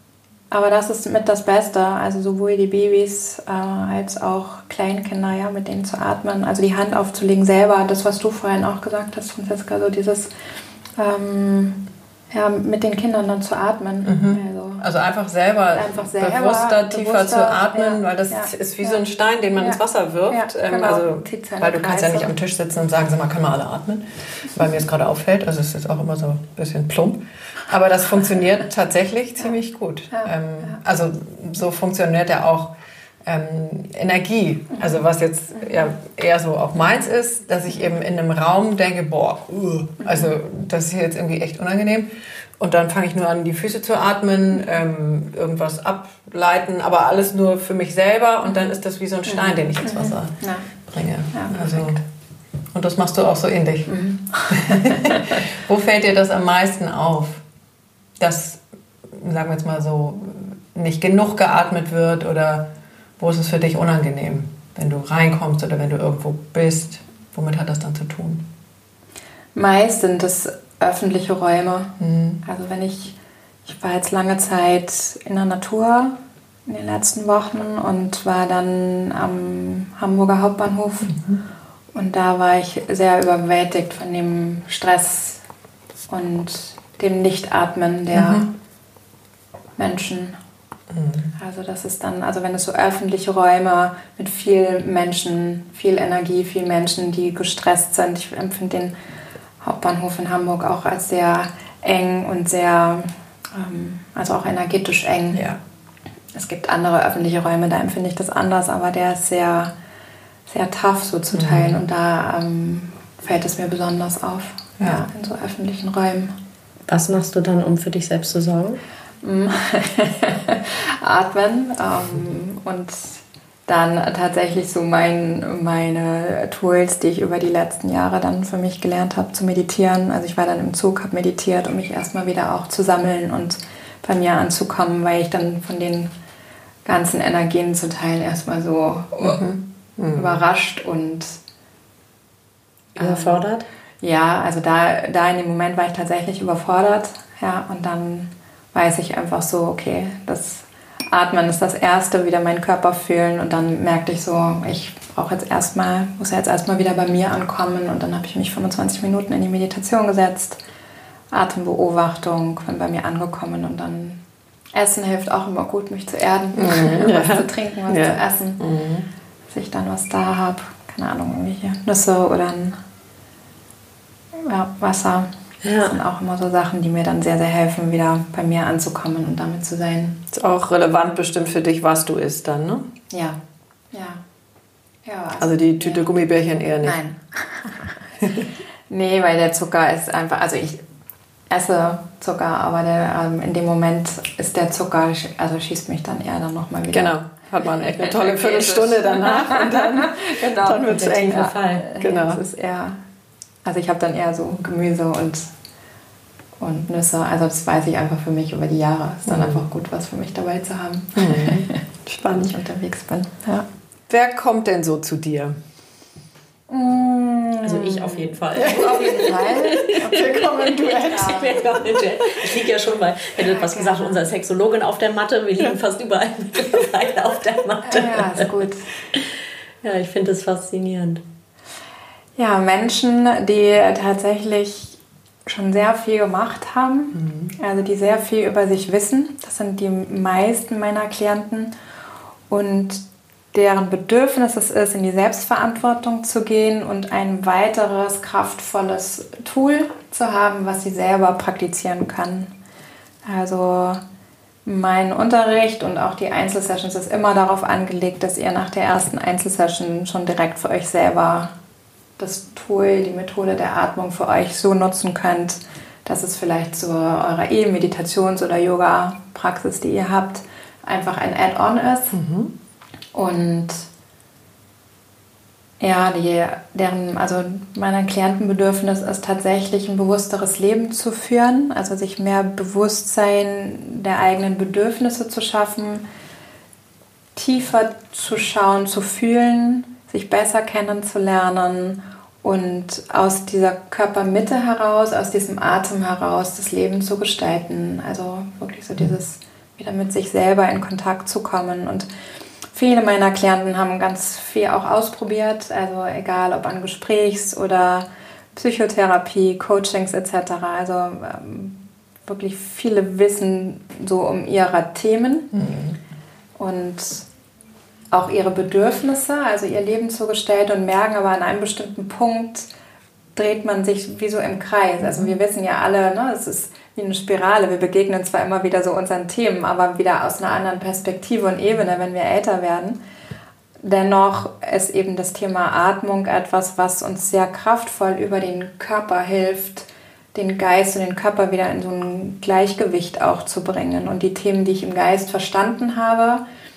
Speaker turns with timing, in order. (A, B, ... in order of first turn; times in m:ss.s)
0:00.5-0:10.3 A
0:11.0-0:11.8 A
0:12.3-0:14.8 A
0:14.0-0:32.7 B
0:15.7-0:19.0 A
0:19.6-0:22.3 A
0:30.1-0:30.8 A
0:33.2-0:52.0 B
0:49.3-0:50.7 A
0:51.3-0:52.0 A
0:52.7-0:54.0 B
0:53.9-0:55.4 A
0:54.5-0:57.4 B
0:58.2-1:02.7 B
1:03.2-1:08.4 B
1:09.6-1:11.9 A
1:12.0-1:12.4 B
1:12.4-1:21.2 A
1:21.0-1:21.4 B
1:21.9-1:25.4 A
1:26.1-1:28.5 A
1:28.1-1:28.5 B
1:29.8-1:30.4 A
1:30.9-1:31.3 B
1:31.4-1:38.9 A
1:39.6-1:45.4 A
1:45.3-1:45.6 B
1:46.3-1:49.7 A
1:50.5-1:56.3 A
1:51.3-1:51.8 B
1:56.9-1:58.8 C
1:59.2-2:16.1 A
2:16.9-2:19.4 A
2:19.2-2:20.4 B
2:20.1-2:21.4 A
2:23.0-2:23.7 C
2:23.0-2:23.4 A
2:24.0-2:40.6 A
2:41.3-2:44.2 A
2:44.7-2:48.6 A
2:46.6-2:49.1 B
2:49.5-2:52.8 A
2:54.4-3:00.2 A
2:55.6-2:56.0 C
3:00.3-3:02.9 B
3:03.1-3:03.4 A
3:03.9-3:04.2 A
3:05.1-3:06.1 A
3:05.4-3:07.0 B
3:06.8-3:07.9 A
3:08.2-3:08.5 B
3:08.9-3:10.8 A
3:11.5-3:17.2 A
3:16.9-3:22.4 B
3:17.8-3:23.0 A
3:20.8-3:21.9 C
3:23.6-3:25.5 A
3:26.6-3:33.7 A
3:29.3-3:29.6 B
3:31.2-3:32.6 B
3:34.1-3:35.6 B
3:36.7-3:41.6 A
3:37.6-3:48.5 C
3:38.6-3:42.5 B
3:43.4-3:44.2 A
3:47.8-3:48.9 A
3:49.8-3:51.2 C
3:52.4-4:01.7 A
3:57.1-3:57.5 B
4:02.5-4:12.5 A
4:13.3-4:14.0 A
4:14.7-4:21.5 A
4:22.2-4:32.2 A
4:32.1-4:32.5 B
4:33.1-4:33.9 A
4:35.8-4:46.0 A
4:47.4-5:02.1 A
5:02.7-5:15.5 A
5:15.5-5:16.0 B
5:16.6-5:17.3 A
5:18.1-5:22.7 A
5:23.4-5:33.0 A
5:25.0-5:25.3 B
5:33.8-5:46.4 A